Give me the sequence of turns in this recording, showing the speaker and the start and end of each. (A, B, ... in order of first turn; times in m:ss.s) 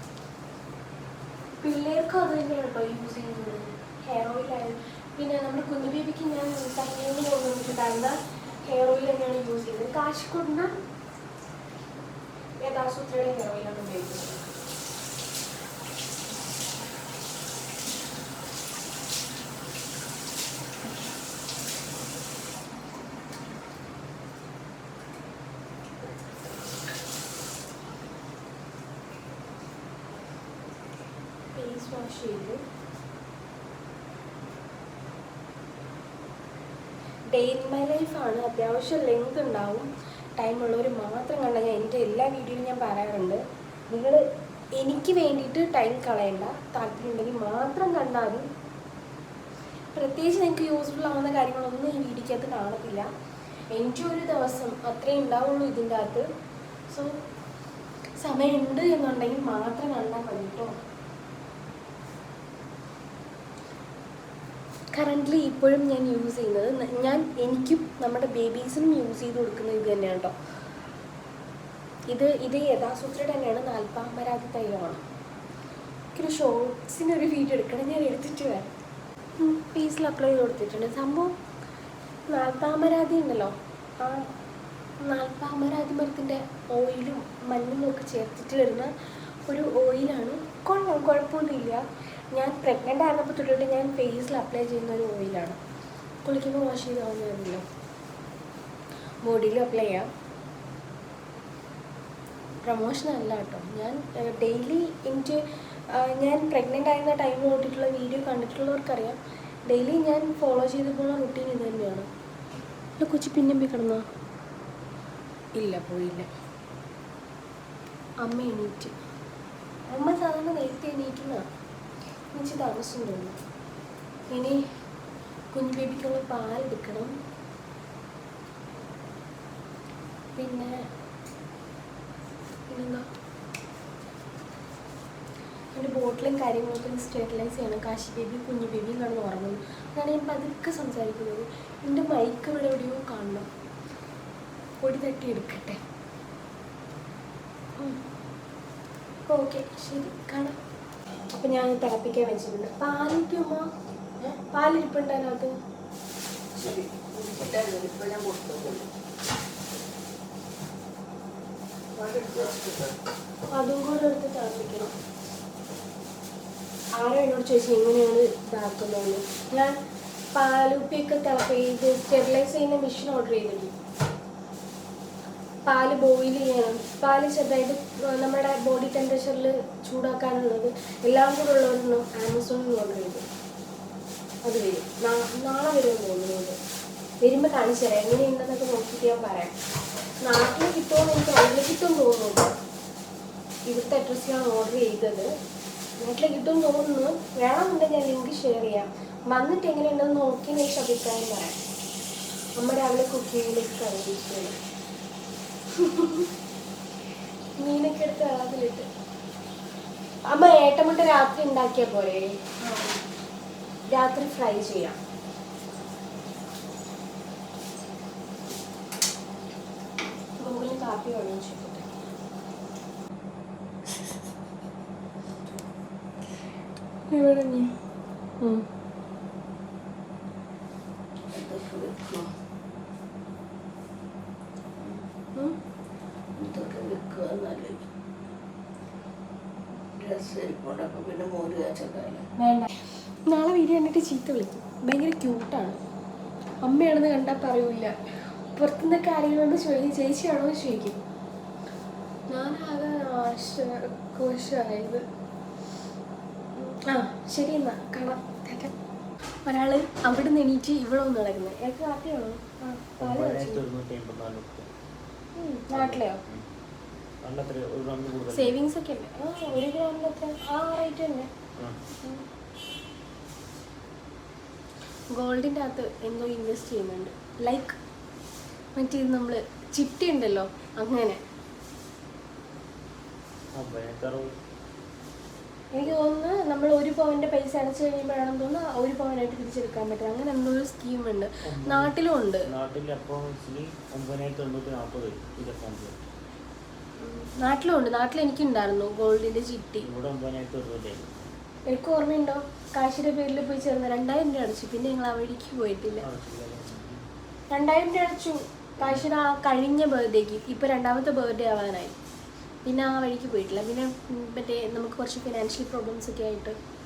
0:01.6-0:10.7 A
0:12.6-0:14.4 A
0:31.5-0:32.6 A
0:37.3-0:44.2 A
0:44.8-0:48.5 A
0:49.9-0:53.1 A
0:53.7-0:56.2 A
0:58.2-1:00.7 A
1:04.9-1:10.3 A
1:12.1-1:15.0 A
1:16.1-1:18.7 A
1:19.4-1:21.3 A
1:22.3-1:24.3 A
1:25.0-1:28.9 A
1:29.5-1:31.8 A
1:32.3-1:35.6 A
1:36.2-1:37.6 A
1:39.2-1:40.1 A
1:42.6-1:52.1 A
1:53.0-1:54.0 A
1:55.6-1:56.3 A
1:58.2-1:58.9 A
1:59.9-2:01.4 A
2:02.3-2:03.4 A
2:04.3-2:04.6 A
2:05.5-2:07.1 A
2:10.4-2:10.7 A
2:12.7-2:13.0 A
2:15.7-2:23.5 A
2:24.8-2:25.8 A
2:29.3-2:30.6 A
2:31.3-2:33.7 A
2:34.5-2:35.6 A
2:36.6-2:38.9 B
2:42.0-2:42.9 B
2:43.5-2:44.9 A
2:47.0-2:49.8 A
2:50.3-2:53.7 A
2:55.6-3:03.2 A
3:04.4-3:06.6 A
3:07.2-3:09.5 A
3:10.2-3:12.5 A
3:13.7-3:15.3 A
3:16.0-3:21.6 A
3:22.6-3:24.6 A
3:25.7-3:26.3 A
3:27.6-3:28.9 A
3:30.3-3:33.0 A
3:33.9-3:35.0 A
3:40.4-3:42.0 A
3:47.1-3:47.7 A
3:48.4-3:48.6 A
3:51.3-3:52.3 B
3:56.4-3:57.8 B
4:00.0-4:02.3 B
4:02.4-4:02.7 A
4:03.2-4:05.8 A
4:06.6-4:07.9 A
4:08.6-4:11.0 A
4:12.3-4:15.0 A
4:16.6-4:18.7 A
4:19.4-4:23.6 A
4:23.0-4:24.7 C
4:25.4-4:26.2 A
4:25.7-4:26.4 C
4:27.2-4:28.6 C
4:28.3-4:31.3 A
4:35.1-4:37.8 A
4:38.8-4:41.2 A
4:43.5-4:44.3 C
4:45.7-4:52.5 A
4:51.4-4:56.0 C
4:57.0-4:59.9 A
4:59.8-5:01.2 C
5:01.7-5:06.0 A
5:06.0-5:07.0 C
5:07.5-5:11.9 A
5:08.8-5:09.1 C
5:12.6-5:16.6 A